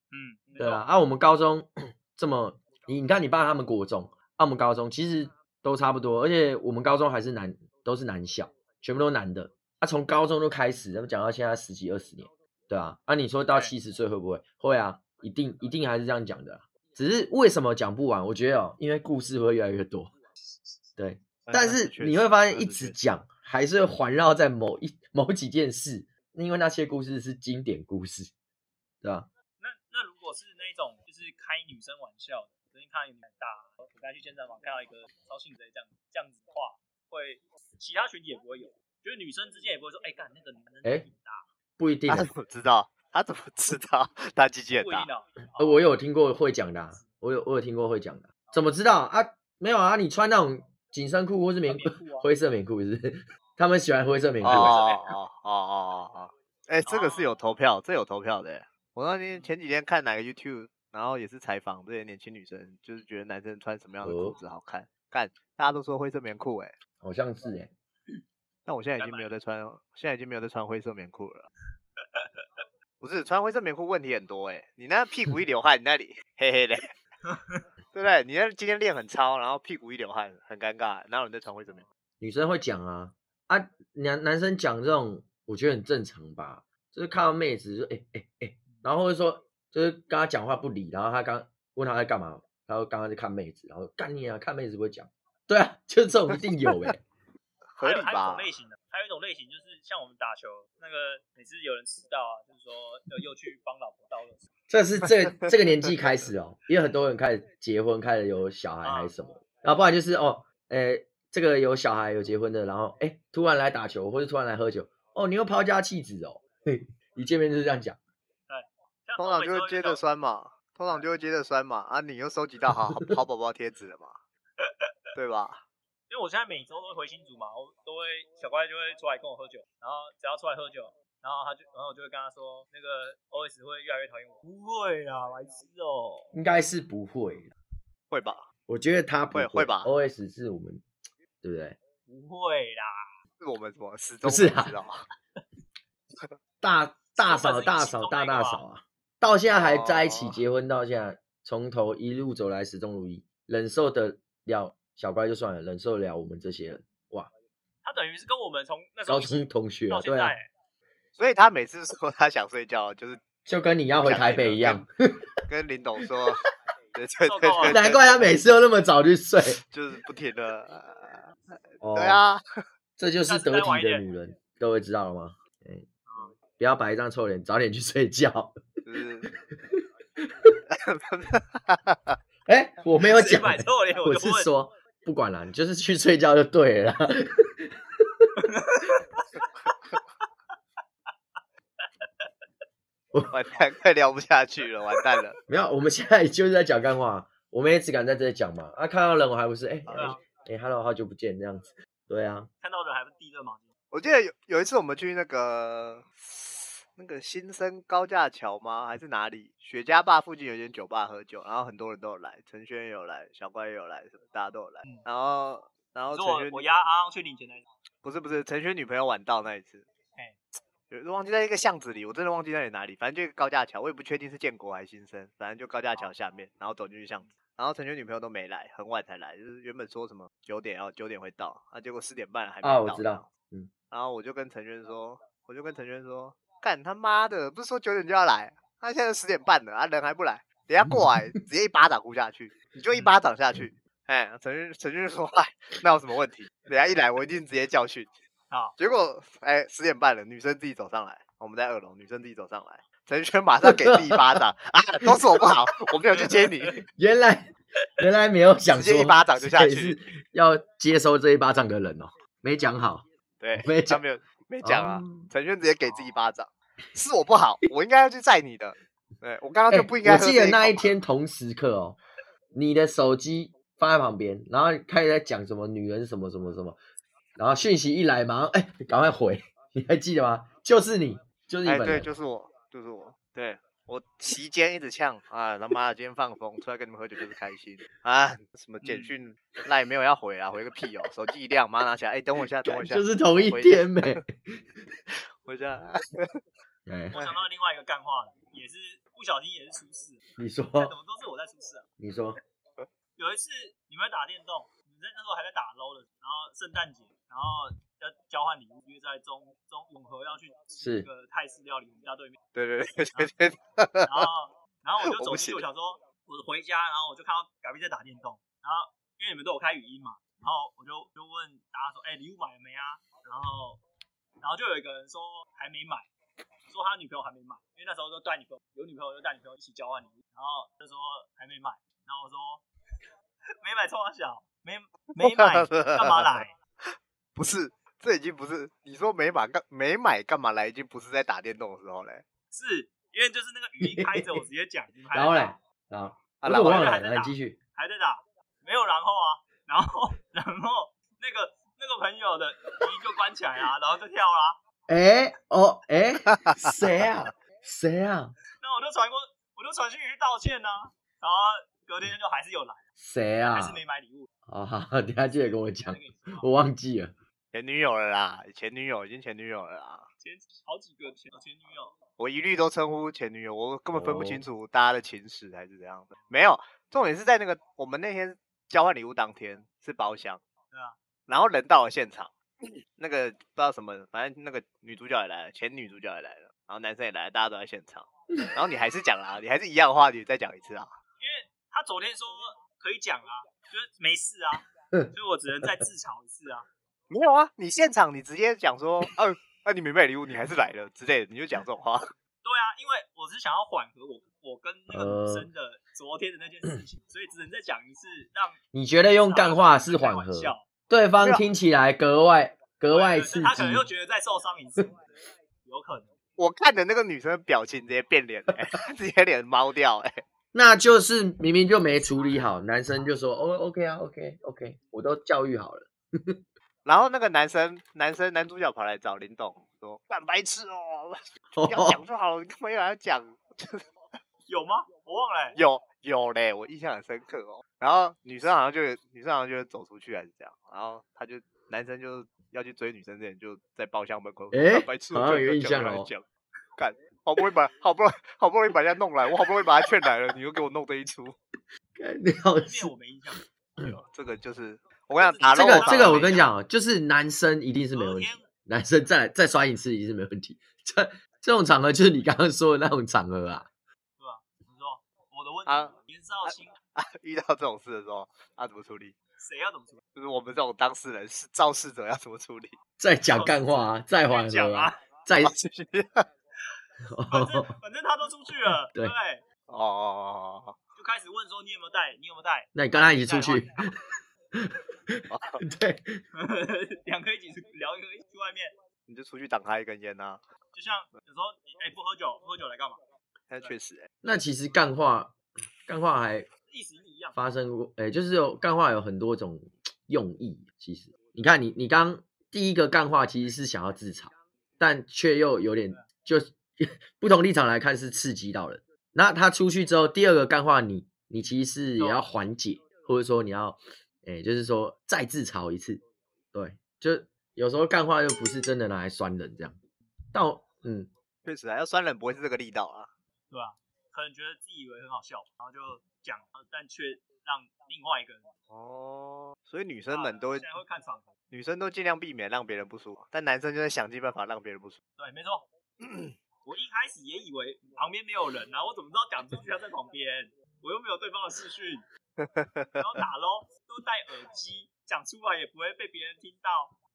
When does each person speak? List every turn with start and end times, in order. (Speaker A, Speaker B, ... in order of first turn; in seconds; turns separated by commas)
Speaker A: 0.1-0.9, Speaker B: 0.6-20.1, Speaker B: 21.0-28.3, Speaker C: 21.5-23.0, Speaker B: 29.0-29.3, Speaker A: 29.6-41.5, Speaker B: 41.8-42.3, Speaker C: 42.1-45.1, Speaker A: 44.7-45.9, Speaker B: 45.6-54.8, Speaker A: 51.7-52.3, Speaker C: 54.4-66.8, Speaker A: 54.5-55.1, Speaker A: 56.9-57.3, Speaker B: 64.0-64.4, Speaker B: 67.0-67.7, Speaker C: 68.7-71.5, Speaker A: 69.0-69.3, Speaker A: 72.0-72.7, Speaker C: 73.0-76.9, Speaker A: 77.2-77.7, Speaker C: 77.9-81.8, Speaker B: 82.2-97.0, Speaker C: 97.8-98.5, Speaker A: 97.8-104.5, Speaker B: 104.7-118.0, Speaker C: 105.0-105.5, Speaker A: 108.8-109.3, Speaker A: 118.5-120.0, Speaker C: 119.2-124.2, Speaker C: 125.2-125.6, Speaker A: 126.1-136.3, Speaker B: 136.3-137.5, Speaker C: 138.1-138.5, Speaker B: 138.7-140.8, Speaker C: 139.3-139.9, Speaker B: 141.4-141.8, Speaker A: 142.1-143.1, Speaker C: 143.4-145.0, Speaker B: 144.2-144.8, Speaker B: 146.6-157.3, Speaker A: 147.2-148.6, Speaker C: 149.5-150.4, Speaker A: 157.8-160.5, Speaker B: 159.1-160.3, Speaker C: 161.2-163.2, Speaker B: 163.5-165.2, Speaker C: 164.0-164.8, Speaker C: 165.5-166.4, Speaker C: 166.9-168.3, Speaker A: 167.3-167.8, Speaker B: 167.7-169.6, Speaker C: 169.7-172.4, Speaker B: 171.8-172.2, Speaker B: 173.0-175.9, Speaker A: 173.3-174.1, Speaker A: 176.1-176.4, Speaker B: 176.6-178.7, Speaker C: 178.8-179.3, Speaker B: 179.3-180.6, Speaker C: 180.7-182.2, Speaker B: 182.5-188.3, Speaker A: 183.0-184.5, Speaker A: 188.4-190.0, Speaker A: 191.8-192.3, Speaker C: 193.3-195.4, Speaker B: 195.5-202.5, Speaker C: 199.9-200.2, Speaker A: 199.9-200.2, Speaker A: 202.6-203.7, Speaker C: 203.9-216.7, Speaker A: 216.1-217.6, Speaker C: 218.0-219.9, Speaker C: 220.9-233.3, Speaker B: 232.6-233.7, Speaker C: 233.9-248.1, Speaker B: 240.8-241.2, Speaker A: 248.5-248.8, Speaker C: 248.8-256.8, Speaker B: 253.8-254.2, Speaker B: 256.9-264.0, Speaker C: 258.7-260.0, Speaker C: 263.4-270.9, Speaker B: 264.6-265.3, Speaker B: 269.7-272.0, Speaker B: 272.5-276.8, Speaker B: 277.4-282.1, Speaker C: 281.6-294.2, Speaker B: 292.6-294.6, Speaker C: 295.4-296.4, Speaker B: 296.9-297.3, Speaker A: 297.1-300.2, Speaker B: 300.4-300.9, Speaker A: 300.8-301.9, Speaker B: 302.0-302.4, Speaker A: 303.2-312.4, Speaker B: 310.8-311.1, Speaker C: 312.5-314.1, Speaker A: 314.1-323.8, Speaker C: 315.0-315.6, Speaker A: 324.4-326.1, Speaker A: 326.7-332.6, Speaker A: 333.6-336.5, Speaker C: 335.2-336.4, Speaker C: 337.4-342.2, Speaker A: 342.5-345.5, Speaker B: 343.8-344.4, Speaker B: 345.1-347.6, Speaker C: 346.4-347.0, Speaker A: 346.6-354.6, Speaker B: 354.9-358.3, Speaker C: 356.3-356.8, Speaker A: 358.6-362.8, Speaker B: 363.0-363.8, Speaker A: 363.5-364.3, Speaker B: 364.5-367.1, Speaker A: 365.4-366.5, Speaker C: 367.5-370.1, Speaker A: 370.2-371.9, Speaker C: 372.2-380.4, Speaker B: 373.9-374.4, Speaker A: 380.7-381.0, Speaker C: 381.3-390.9, Speaker A: 391.2-396.7, Speaker C: 397.1-402.1, Speaker A: 402.4-408.6, Speaker B: 404.9-405.5, Speaker B: 408.7-413.9, Speaker A: 409.2-410.6, Speaker C: 411.2-411.4, Speaker A: 412.9-415.0, Speaker A: 415.6-416.1, Speaker C: 416.4-420.2, Speaker B: 420.5-426.4, Speaker C: 426.9-433.9, Speaker B: 431.5-432.0, Speaker A: 434.5-435.6, Speaker C: 435.6-451.4, Speaker B: 444.5-446.1, Speaker B: 452.0-453.9, Speaker A: 452.6-453.4, Speaker C: 453.8-456.5, Speaker A: 455.2-456.5, Speaker B: 455.5-463.7, Speaker A: 457.9-458.5, Speaker A: 464.2-466.7, Speaker C: 465.7-469.1, Speaker A: 469.4-470.0, Speaker C: 470.1-472.8, Speaker B: 473.0-475.5, Speaker A: 473.3-475.1, Speaker C: 475.4-476.3, Speaker B: 477.1-477.7, Speaker A: 477.3-479.4, Speaker B: 478.7-479.1, Speaker C: 479.7-480.8, Speaker A: 481.0-483.9, Speaker B: 482.8-484.0, Speaker B: 484.5-486.2, Speaker C: 485.3-485.6, Speaker A: 486.3-488.7, Speaker C: 489.1-490.4, Speaker A: 490.7-493.0, Speaker C: 493.5-494.1, Speaker B: 494.2-496.5, Speaker A: 496.7-497.4, Speaker B: 497.4-516.0, Speaker A: 512.0-512.3, Speaker B: 516.5-519.8, Speaker B: 520.3-521.1, Speaker C: 521.5-523.1, Speaker A: 523.5-528.5, Speaker C: 528.7-530.7, Speaker A: 530.1-531.3, Speaker C: 531.5-535.0, Speaker A: 535.2-535.7, Speaker C: 536.0-536.4, Speaker A: 536.6-542.1, Speaker C: 542.4-543.2, Speaker A: 543.0-547.0